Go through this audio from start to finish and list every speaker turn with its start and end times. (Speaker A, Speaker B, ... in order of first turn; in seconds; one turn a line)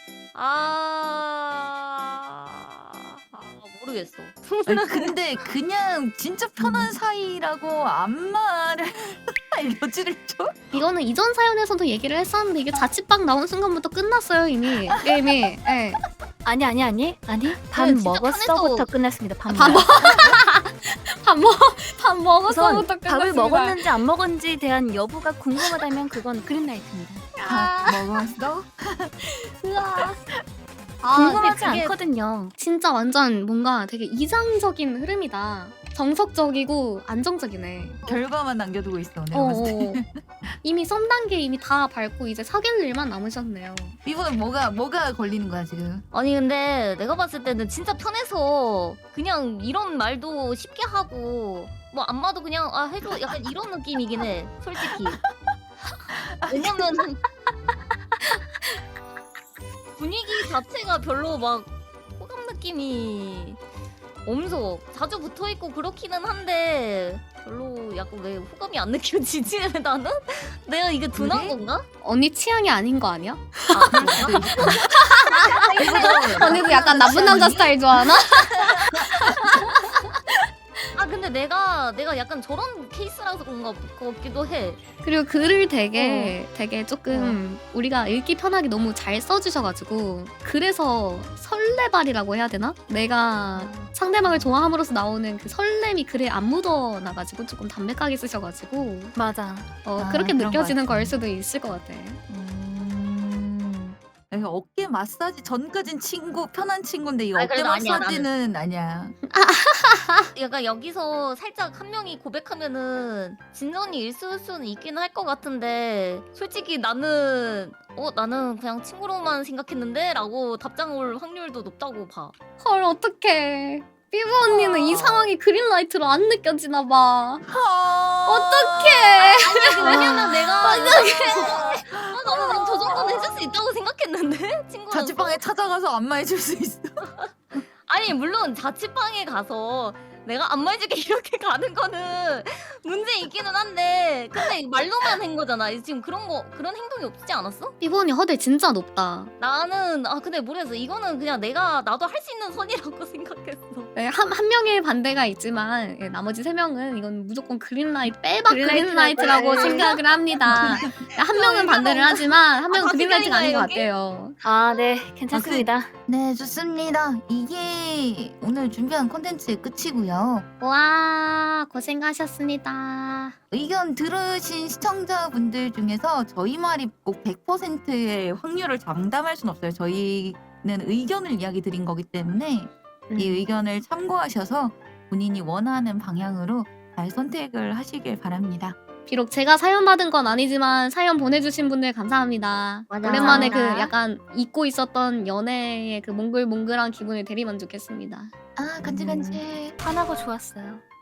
Speaker A: 0.3-5.1
Speaker B: 4.7-10.7
Speaker C: 6.6-6.9
Speaker D: 10.7-16.0
Speaker C: 16.4-20.0
Speaker A: 17.7-18.9
Speaker D: 19.5-23.8
Speaker B: 19.9-20.4
Speaker C: 22.5-27.3
Speaker D: 27.4-28.1
Speaker B: 27.4-29.1
Speaker D: 29.5-30.1
Speaker B: 29.8-30.1
Speaker A: 31.0-32.0
Speaker D: 31.1-31.4
Speaker C: 31.1-32.5
Speaker D: 32.6-38.2
Speaker B: 38.0-40.5
Speaker D: 39.3-40.0
Speaker D: 40.6-44.0
Speaker B: 44.0-46.0
Speaker A: 46.1-55.2
Speaker B: 56.1-56.9
Speaker A: 56.5-57.2
Speaker A: 60.0-63.6
Speaker A: 64.2-71.8
Speaker B: 71.1-71.6
Speaker D: 72.0-74.1
Speaker A: 73.7-76.5
Speaker B: 73.9-75.0
Speaker D: 74.7-80.0
Speaker B: 75.8-79.1
Speaker A: 80.9-84.8
Speaker D: 85.0-99.2
Speaker C: 85.9-86.3
Speaker C: 87.1-87.4
Speaker C: 93.5-93.9
Speaker C: 99.2-99.7
Speaker D: 99.8-102.2
Speaker B: 100.0-101.2
Speaker A: 102.3-103.9
Speaker B: 104.3-109.2
Speaker A: 107.3-108.3
Speaker D: 109.3-110.3
Speaker A: 110.3-122.3
Speaker D: 122.6-127.4
Speaker A: 124.5-125.2
Speaker B: 124.8-125.2
Speaker B: 127.4-133.3
Speaker D: 128.2-131.6
Speaker A: 129.4-135.4
Speaker B: 134.9-137.0
Speaker A: 137.8-147.7
Speaker D: 147.8-149.3
Speaker A: 149.4-153.9
Speaker D: 153.9-164.4
Speaker C: 158.5-159.9
Speaker A: 159.6-159.8
Speaker B: 160.5-160.9
Speaker A: 161.3-163.9
Speaker C: 164.4-165.9
Speaker B: 165.3-170.5
Speaker D: 170.6-173.4
Speaker B: 173.5-188.8
Speaker C: 183.1-183.4
Speaker D: 189.1-198.3
Speaker A: 192.9-193.9
Speaker C: 193.2-193.5
Speaker B: 198.6-199.8
Speaker C: 198.8-200.8